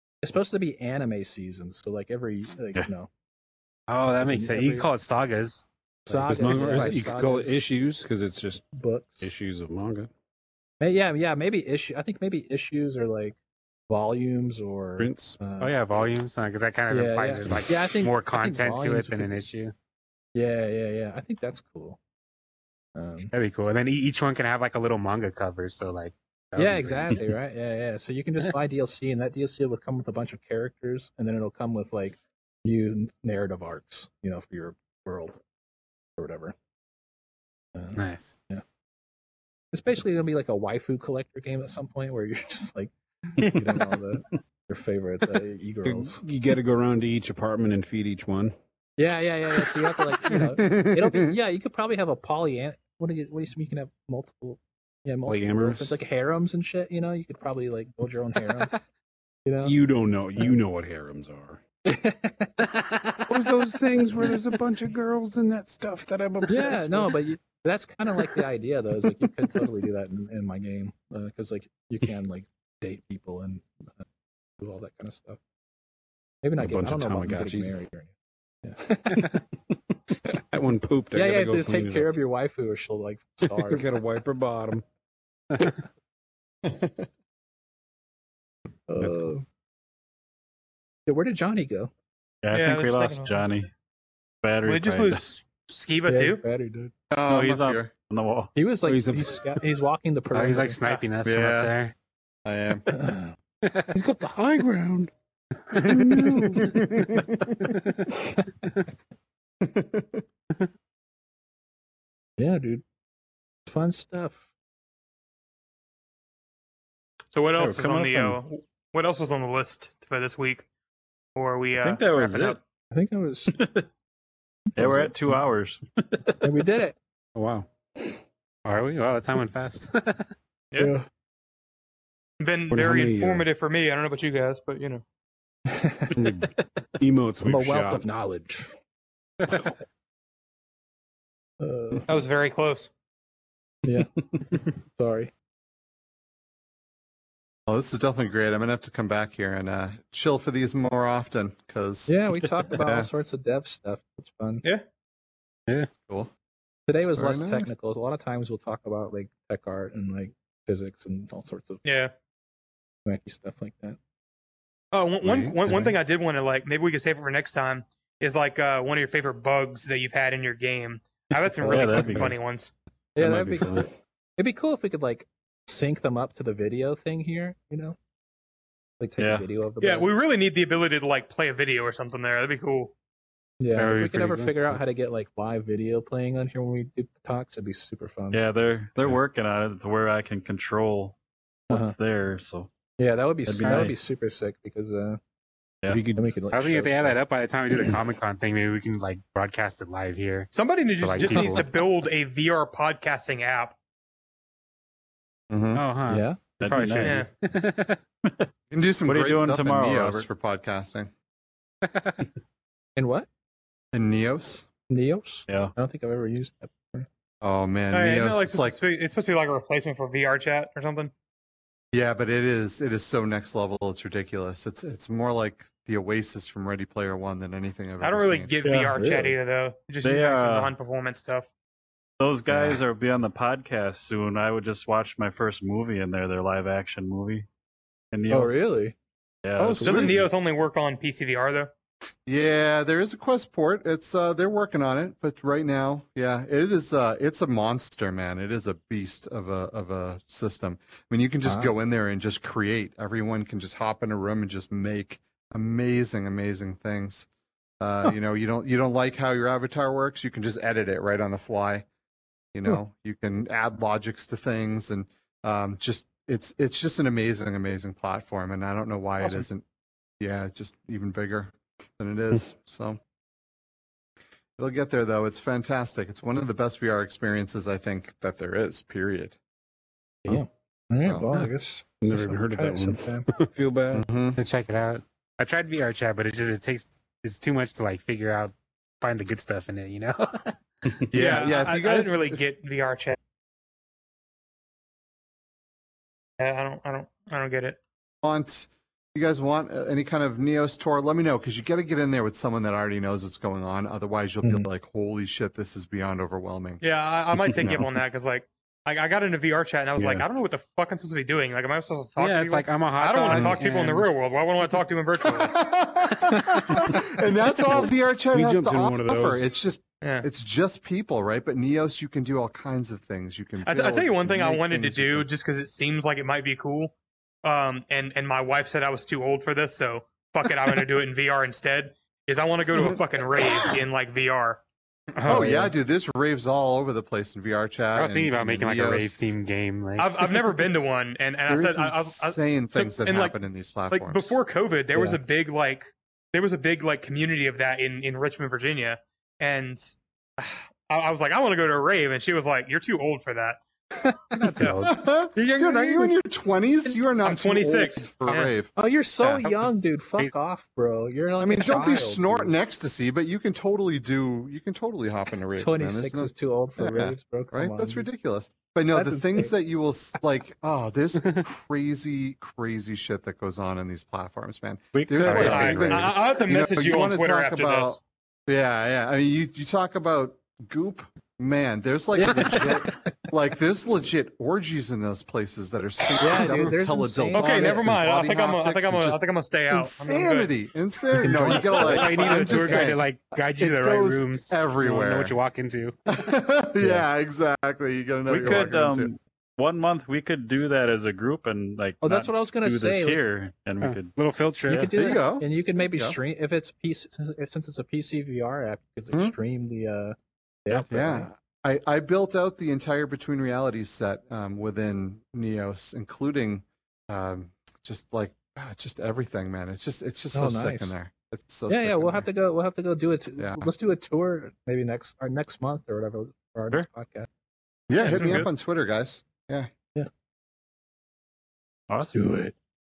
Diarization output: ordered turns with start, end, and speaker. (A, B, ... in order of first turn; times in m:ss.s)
0:00.2-0:03.1 A
0:03.9-0:07.0 B
0:04.2-0:04.8 A
0:06.1-0:07.6 A
0:06.2-0:08.7 C
0:08.7-0:09.3 A
0:09.2-0:10.1 C
0:10.8-0:13.4 A
0:13.9-0:15.7 A
0:15.0-0:15.5 C
0:15.6-0:19.7 B
0:16.9-0:19.3 A
0:20.4-0:22.0 A
0:23.0-0:23.3 A
0:23.3-0:27.3 B
0:26.6-0:35.4 A
0:36.2-0:36.6 A
0:37.8-0:38.6 A
0:38.0-0:38.3 B
0:39.7-0:46.2 A
0:45.8-0:48.6 C
0:49.0-0:58.7 A
0:55.3-0:56.0 C
0:59.4-0:59.8 A
0:59.6-1:01.6 C
1:01.9-1:02.7 A
1:03.3-1:07.2 C
1:06.5-1:14.0 A
1:14.6-1:15.4 A
1:16.4-1:18.1 A
1:16.6-1:17.8 C
1:18.6-1:19.4 A
1:20.3-1:22.2 C
1:21.1-1:23.9 A
1:23.6-1:24.8 C
1:26.6-1:27.1 D
1:28.9-1:29.4 A
1:29.0-1:29.3 C
1:31.1-1:31.9 A
1:32.4-1:33.7 E
1:32.5-1:33.5 F
1:34.4-1:35.2 E
1:34.6-1:36.4 F
1:36.1-1:36.9 A
1:37.1-1:37.9 D
1:37.3-1:38.5 E
1:38.6-1:40.8 A
1:38.9-1:39.6 C
1:40.3-1:41.9 B
1:40.8-1:41.1 F
1:41.2-1:41.8 D
1:42.4-1:42.9 D
1:42.9-1:43.3 A
1:43.6-1:43.9 B
1:44.1-1:45.1 C
1:45.8-1:46.8 C
1:45.8-1:46.8 D
1:49.6-1:50.2 D
1:52.4-1:52.8 A
1:53.7-1:54.5 A
1:57.3-2:00.7 F
1:57.6-1:58.4 E
1:57.6-1:58.1 C
2:01.4-2:02.6 F
2:01.8-2:02.6 E
2:02.9-2:03.6 A
2:03.5-2:03.9 E
2:04.7-2:05.4 A
2:04.8-2:06.4 E
2:06.4-2:07.0 A
2:07.4-2:07.7 C
2:08.6-2:10.3 B
2:10.7-2:11.0 F
2:10.8-2:11.1 A
2:12.4-2:15.0 F
2:12.7-2:13.5 C
2:15.7-2:16.1 A
2:16.1-2:18.0 C
2:17.4-2:18.7 A
2:21.6-2:22.1 A
2:22.1-2:22.9 F
2:23.8-2:24.1 A
2:24.9-2:25.3 A
2:27.7-2:33.1 D
2:32.1-2:34.7 A
2:35.9-2:36.3 D
2:36.9-2:41.8 A
2:37.2-2:37.7 D
2:41.8-2:42.1 F
2:43.1-2:44.0 A
2:44.9-2:52.7 F
2:45.1-2:45.9 D
2:51.3-2:52.4 E
2:51.6-2:52.2 A
2:53.2-2:58.0 A
2:53.2-2:53.9 C
2:59.0-3:00.1 A
2:59.2-2:59.4 E
2:59.8-3:02.9 F
3:03.6-3:08.4 A
3:03.8-3:04.8 B
3:08.3-3:11.2 E
3:11.7-3:12.0 A
3:11.7-3:12.7 E
3:13.0-3:15.2 A
3:13.5-3:14.0 E
3:13.6-3:14.0 B
3:15.9-3:16.4 C
3:16.2-3:17.2 A
3:16.5-3:21.7 B
3:20.5-3:23.8 F
3:21.3-3:21.7 A
3:25.5-3:25.8 D
3:25.7-3:28.0 B
3:26.1-3:26.4 A
3:26.6-3:27.2 E
3:27.0-3:27.3 F
3:28.7-3:31.1 D
3:29.1-3:30.3 E
3:31.8-3:32.2 B
3:33.0-3:33.3 A
3:33.9-3:34.7 D
3:34.9-3:37.1 A
3:37.4-3:38.8 D
3:37.9-3:41.1 F
3:41.9-3:48.5 D
3:48.0-3:51.5 F
3:48.6-3:49.3 E
3:50.0-3:50.7 E
3:52.2-3:57.5 E
3:52.5-3:52.8 D
3:58.1-3:58.7 E
3:58.3-3:59.0 A
3:59.4-4:00.3 E
3:59.6-4:00.2 D
3:59.8-4:01.7 F
4:02.3-4:17.3 D
4:11.4-4:11.7 A
4:17.8-4:21.9 D
4:22.5-4:29.6 D
4:29.2-4:29.5 F
4:30.2-4:33.0 D
4:34.6-4:39.4 D
4:40.3-4:43.3 A
4:41.0-4:41.3 D
4:42.0-4:44.1 C
4:43.9-4:44.4 D
4:44.4-4:50.6 B
4:51.1-4:52.4 D
4:51.1-4:53.2 F
4:56.4-4:57.8 F
4:58.2-5:06.8 D
5:06.8-5:15.6 F
5:07.6-5:07.8 D
5:12.2-5:14.1 B
5:15.2-5:25.3 D
5:18.3-5:19.5 C
5:20.0-5:20.3 F
5:23.6-5:34.6 F
5:35.2-5:35.7 B
5:35.2-5:39.2 D
5:35.3-5:35.7 A
5:38.0-5:40.3 B
5:40.0-5:53.6 F
5:41.5-5:44.4 D
5:44.9-5:45.2 A
5:54.3-5:55.1 B
5:54.5-5:54.9 F
5:54.7-5:58.7 D
5:55.4-5:56.1 F
5:56.9-5:58.5 F
5:58.8-6:02.5 A
5:59.4-6:00.3 B
6:01.4-6:35.4 D
6:05.5-6:08.1 A
6:08.9-6:09.6 A
6:14.9-6:16.0 E
6:15.2-6:16.1 B
6:15.3-6:18.0 F
6:22.2-6:23.1 A
6:26.2-6:28.0 A
6:26.3-6:26.7 B
6:27.3-6:30.6 F
6:31.1-6:32.9 A
6:31.7-6:36.1 B
6:36.1-6:39.1 D
6:38.3-6:44.2 E
6:42.0-6:43.3 A
6:43.8-6:44.9 B
6:44.7-6:51.3 A
6:44.9-6:46.2 D
6:50.7-7:02.3 D
7:00.3-7:01.0 A
7:01.7-7:07.3 A
7:03.4-7:03.7 D
7:07.9-7:09.7 D
7:08.0-7:08.4 F
7:08.0-7:08.5 E
7:11.9-7:12.3 E
7:12.1-7:12.5 A